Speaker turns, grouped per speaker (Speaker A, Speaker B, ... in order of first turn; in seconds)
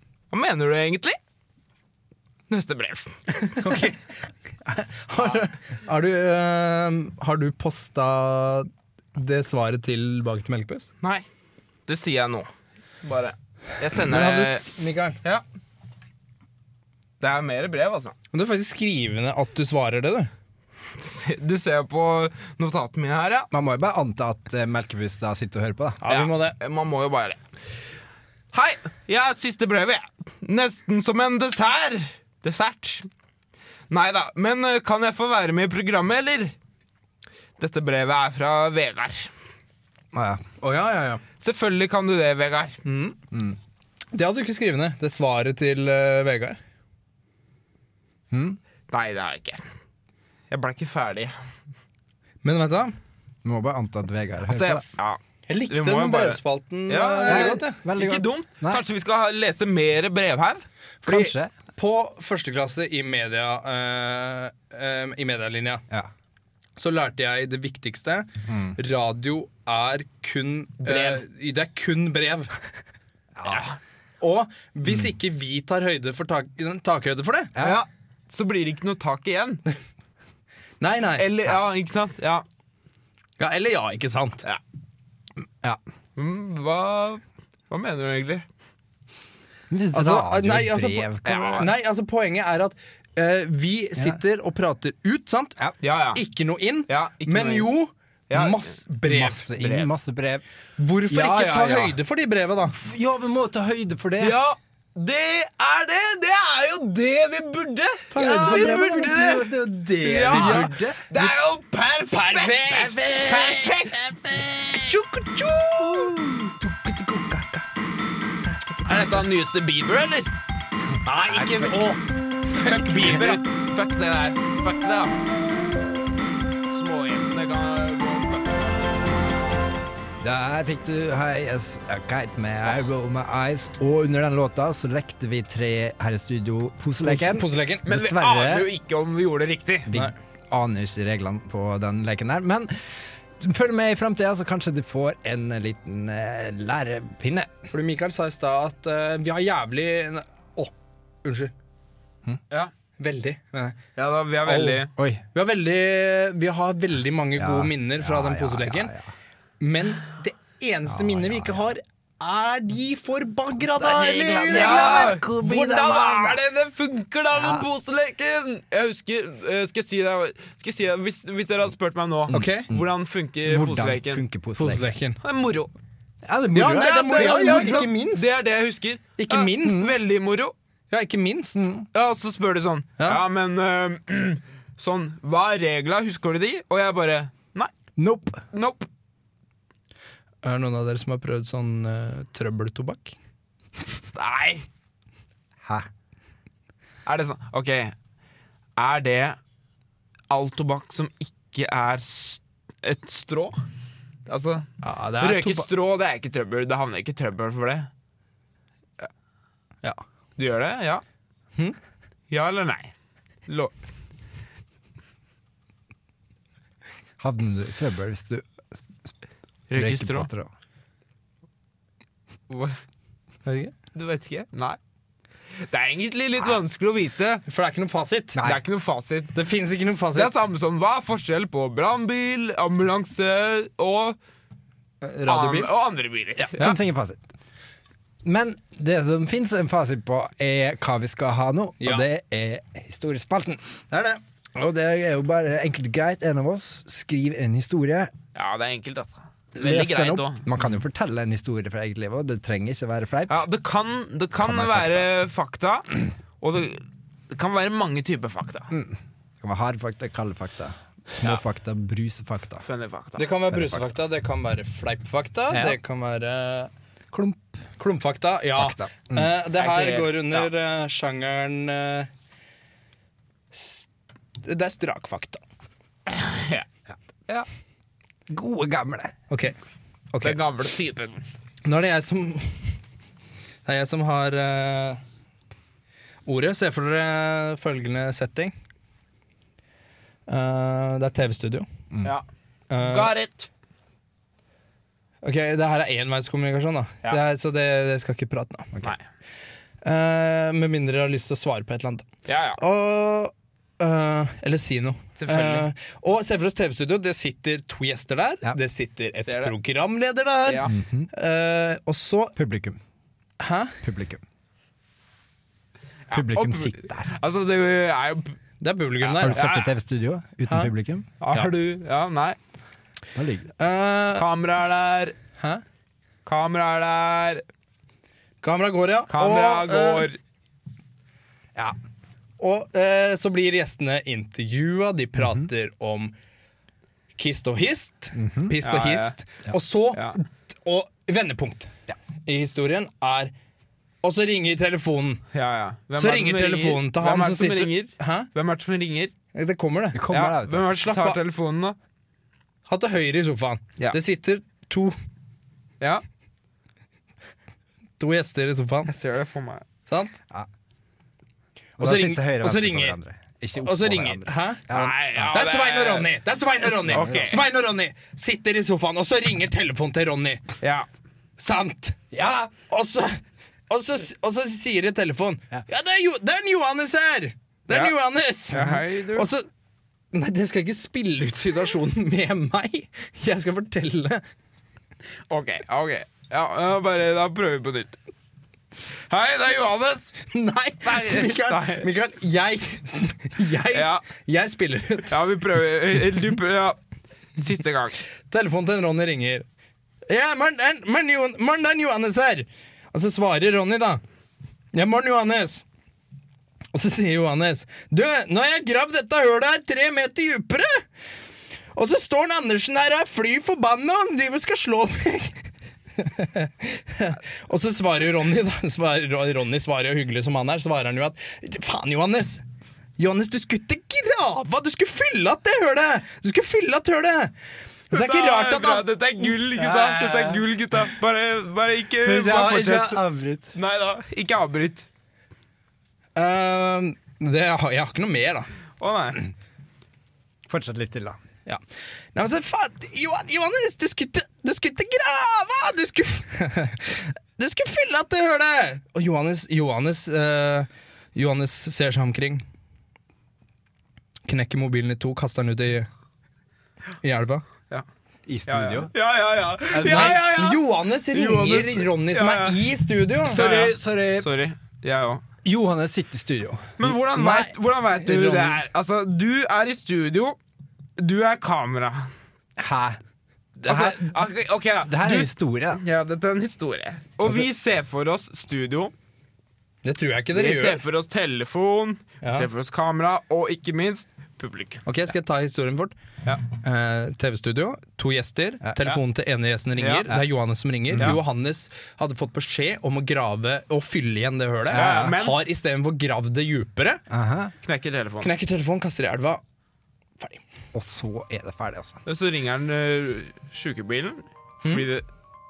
Speaker A: 0.3-1.2, 2.5-3.2, 11.9-12.5, 13.0-14.6, 17.2-18.2, 21.0-23.5, 26.1-27.4, 28.5-33.1, 33.9-36.5, 37.6-39.3, 41.4-42.8, 48.9-49.6, 50.5-51.4, 54.5-60.7, 70.8-71.2, 73.5-73.8, 77.6-79.6, 81.2-82.4, 86.2-88.5, 91.2-91.7, 95.8-96.2, 96.9-97.7, 98.3-98.8, 99.5-99.9, 104.2-115.0, 118.8-120.3, 122.5-125.2, 126.6-128.7, 137.8-139.9, 154.0-154.9, 164.5-174.2, 175.2-175.7, 176.7-180.5, 181.9-187.7, 188.5-188.9, 194.2-194.7, 197.1-197.9, 198.8-199.4, 200.3-203.6, 204.3-204.7, 205.2-207.9, 210.4-211.0, 212.3-212.9, 213.5-213.7, 219.7-220.3, 222.5-222.8, 223.9-224.8, 225.6-227.4, 228.4-229.3, 230.1-234.2, 235.2-236.8, 248.3-250.5, 253.3-258.7, 262.6-263.3, 269.6-270.5, 276.1-276.7, 280.2-281.2, 292.8-293.5, 302.3-302.6, 305.2-305.7, 309.2-309.5, 310.4-310.8, 316.1-318.4, 319.0-319.7, 321.2-322.4, 324.2-325.1, 326.3-327.4, 329.1-330.2, 338.6-339.2, 345.3-349.1, 350.1-351.8, 358.9-359.6, 364.7-366.1, 366.7-367.4, 370.6-370.9, 378.5-379.3, 385.3-388.0, 389.1-390.2, 390.8-391.9, 393.7-394.0, 395.1-396.8, 397.4-398.0, 427.9-433.0, 433.5-434.9, 438.8-439.2, 458.5-462.7, 463.3-465.2, 466.8-470.4, 471.0-472.1, 473.6-478.9, 480.3-484.8, 489.8-490.1, 494.7-495.4, 497.6-498.3, 502.1-505.1
Speaker B: 3.5-4.0, 4.7-10.9, 14.0-15.2, 18.3-20.3, 26.0-26.6, 40.6-41.2, 42.9-43.2, 44.1-46.6, 52.4-53.0, 55.5-57.8, 61.0-65.8, 66.8-72.5, 74.2-77.5, 80.8-81.3, 83.4-84.4, 89.9-95.6, 96.1-99.5, 100.8-102.8, 108.1-109.1, 110.3-111.3, 112.1-113.5, 114.9-116.1, 121.0-122.0, 122.7-123.3, 137.0-137.9, 147.7-150.7, 151.2-151.5, 153.0-153.8, 154.4-158.9, 159.6-165.2, 172.3-172.7, 174.6-175.2, 176.5-178.3, 179.2-179.9, 180.9-181.6, 190.4-193.2, 204.8-205.7, 223.5-223.7, 227.5-228.4, 229.3-230.3, 235.0-235.7, 241.8-242.1, 243.9-244.2, 263.2-266.7, 267.8-272.1, 273.5-273.9, 274.4-275.4, 279.3-279.6, 280.1-280.4, 281.6-282.7, 283.7-285.0, 286.3-288.5, 290.3-291.7, 292.7-293.1, 295.2-298.7, 299.8-302.1, 302.6-312.3, 313.4-313.8, 318.6-319.4, 320.5-320.7, 323.6-324.3, 328.4-330.1, 332.4-336.1, 337.2-341.7, 342.3-343.3, 344.0-345.2, 346.0-348.3, 349.3-350.0, 350.8-351.2, 352.7-354.9, 358.0-358.9, 359.9-360.2, 361.8-363.0, 363.6-370.4, 371.4-379.5, 380.1-384.2, 390.3-395.1, 398.3-399.5, 400.1-404.0, 404.7-405.6, 406.7-410.9, 411.7-422.4, 423.0-427.3, 427.9-430.4, 436.2-438.5, 442.1-452.4, 454.3-455.9, 457.0-457.4, 459.8-463.4, 467.1-468.6, 479.8-480.8, 482.2-482.5, 484.9-485.9, 486.5-497.0, 498.2-499.4
Speaker C: 23.5-26.0, 40.1-40.5, 43.3-43.6, 48.3-48.6, 53.4-54.8, 57.3-58.8, 61.0-61.5, 68.5-68.8, 73.4-73.6, 77.5-77.8, 89.7-91.7, 99.0-100.5, 101.1-102.0, 102.7-104.4, 108.1-111.0, 115.0-117.7, 118.5-119.2, 121.3-121.8, 123.0-123.4, 130.2-138.7, 139.9-147.7, 155.0-155.2, 157.4-159.1, 160.9-161.7, 163.8-166.4, 167.3-167.7, 172.3-172.9, 173.4-174.9, 176.2-177.8, 181.6-181.9, 188.0-188.4, 217.2-219.2, 219.7-220.5, 228.3-228.6, 236.4-237.2, 238.2-243.6, 244.6-248.1, 249.6-253.4, 254.4-255.1, 258.7-262.6, 263.5-263.9, 265.5-265.8, 267.1-267.4, 268.6-269.3, 278.3-279.2, 310.6-311.1, 312.4-312.8, 313.8-314.2, 316.1-317.1, 319.2-321.5, 323.1-323.5, 338.1-338.6, 349.9-351.0, 361.8-365.5, 366.9-367.3, 432.0-433.5, 440.5-441.2, 458.3-458.9, 459.7-460.2, 463.3-464.3, 465.4-466.9, 472.6-473.0, 473.6-474.1, 474.9-475.8, 490.9-491.2, 494.7-495.1, 497.1-497.5, 500.7-502.0